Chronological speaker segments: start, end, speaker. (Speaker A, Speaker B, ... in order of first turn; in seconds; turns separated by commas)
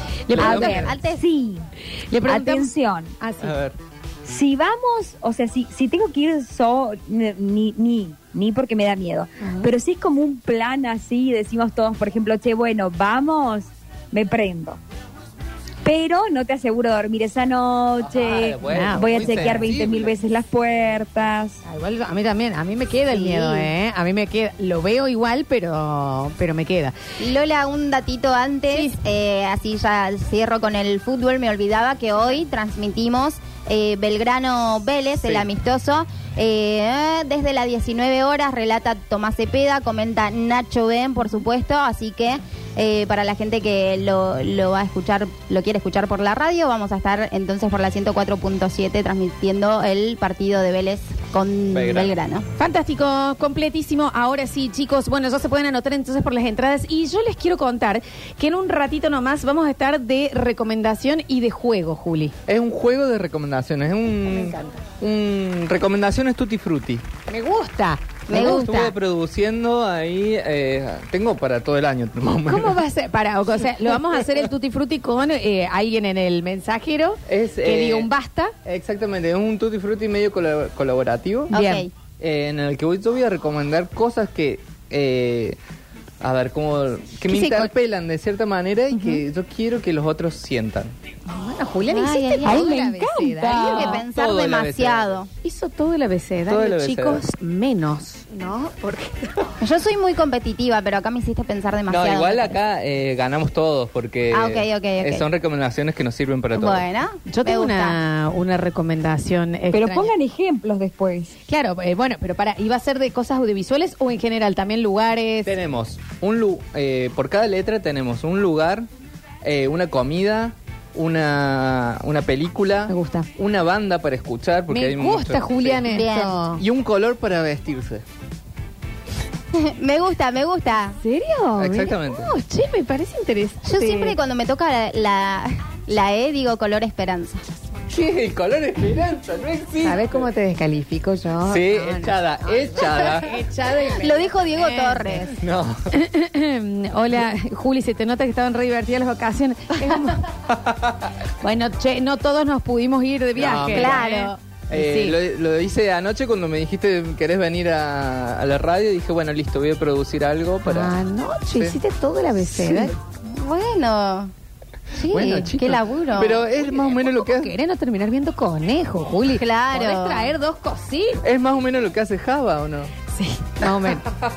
Speaker A: 0.3-0.8, Speaker B: 0.3-1.0, Speaker C: 0.3-1.2, Speaker D: 0.5-1.7, Speaker A: 2.1-3.6, Speaker D: 2.2-3.1, Speaker B: 3.4-3.8, Speaker D: 4.2-14.8, Speaker A: 9.4-9.7, Speaker D: 15.8-21.6, Speaker B: 18.0-20.2, Speaker A: 18.7-19.1, Speaker A: 21.6-26.9, Speaker C: 23.1-23.7, Speaker C: 27.2-52.5, Speaker A: 28.7-29.0, Speaker B: 35.2-35.5, Speaker B: 51.7-52.1, Speaker A: 52.6-62.3, Speaker B: 62.5-67.0, Speaker A: 64.3-64.8, Speaker A: 67.3-68.9, Speaker C: 68.3-68.9, Speaker B: 68.3-72.8, Speaker A: 72.5-78.5, Speaker B: 77.3-78.1, Speaker B: 78.6-81.5, Speaker C: 81.5-81.9, Speaker A: 81.5-81.9, Speaker B: 82.2-85.6, Speaker B: 86.2-90.9, Speaker A: 87.3-87.7, Speaker A: 88.9-89.2, Speaker A: 91.3-94.0, Speaker C: 91.9-92.7, Speaker D: 92.5-93.9, Speaker C: 93.5-95.3, Speaker B: 93.5-95.2, Speaker A: 95.4-99.3, Speaker B: 96.5-97.2, Speaker C: 99.6-102.6, Speaker B: 101.9-106.9, Speaker C: 104.3-105.2, Speaker C: 106.5-108.0, Speaker A: 107.3-110.1, Speaker D: 109.7-111.3, Speaker A: 111.5-115.5, Speaker B: 115.4-118.9, Speaker B: 119.4-126.0, Speaker A: 122.9-123.3, Speaker A: 124.7-126.6, Speaker C: 125.8-126.4, Speaker B: 126.5-128.0, Speaker C: 129.5-130.9, Speaker A: 131.0-134.2, Speaker B: 131.6-132.3, Speaker C: 133.6-137.4, Speaker B: 137.9-140.2, Speaker A: 139.8-145.4, Speaker B: 141.4-143.3, Speaker C: 143.9-145.3, Speaker B: 145.4-145.8, Speaker A: 145.9-150.2, Speaker B: 150.5-151.1, Speaker A: 151.4-155.2, Speaker B: 153.4-154.1, Speaker C: 153.7-154.4, Speaker B: 154.7-160.9, Speaker A: 160.7-162.9, Speaker B: 161.5-161.8, Speaker C: 162.5-164.3, Speaker C: 164.9-166.4, Speaker B: 165.1-167.5, Speaker A: 166.6-171.2, Speaker C: 169.3-170.3, Speaker B: 171.2-172.9, Speaker A: 173.1-174.1